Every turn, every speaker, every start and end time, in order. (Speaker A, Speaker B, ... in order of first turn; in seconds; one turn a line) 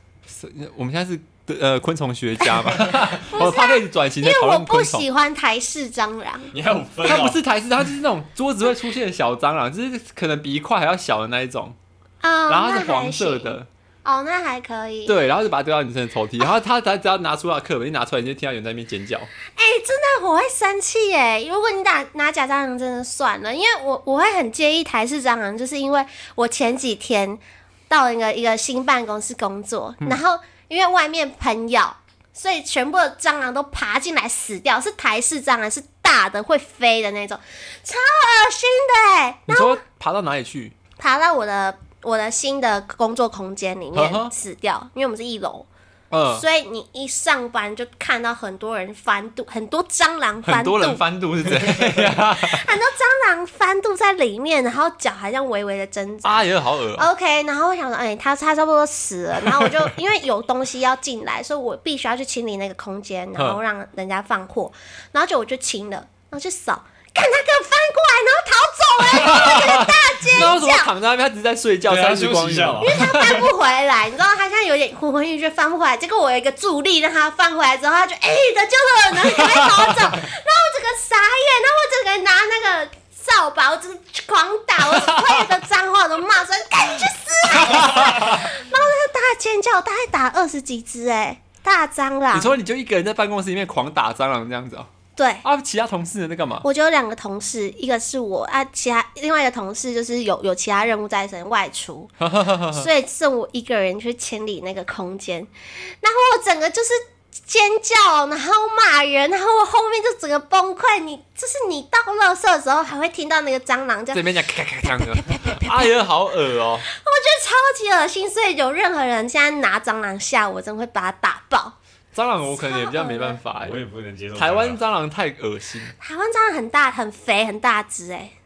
Speaker A: 0.3-5.1
Speaker B: 3.1-6.5
Speaker C: 6.5-7.4
Speaker A: 7.0-11.8
Speaker B: 12.2-15.2
Speaker A: 12.5-13.7
Speaker A: 15.1-19.3
Speaker B: 19.5-39.8
Speaker A: 39.5-40.8
Speaker B: 41.0-45.7
Speaker A: 43.9-44.3
Speaker A: 46.1-46.5
Speaker B: 46.3-51.0
Speaker A: 50.5-52.6
Speaker B: 52.3-70.9
Speaker A: 56.2-57.1
Speaker A: 69.2-73.3
Speaker C: 71.9-73.5
Speaker B: 72.8-92.6
Speaker A: 79.4-79.7
Speaker A: 85.0-85.4
Speaker A: 87.6-88.4
Speaker A: 92.3-94.9
Speaker B: 95.2-95.4
Speaker A: 95.4-96.7
Speaker B: 96.6-102.1
Speaker A: 102.2-102.9
Speaker B: 102.7-114.3
Speaker A: 114.1-116.9
Speaker B: 114.8-116.0
Speaker B: 116.9-121.8
Speaker A: 122.1-123.8
Speaker B: 122.5-123.4
Speaker C: 123.6-124.8
Speaker A: 124.4-125.9
Speaker B: 126.0-128.3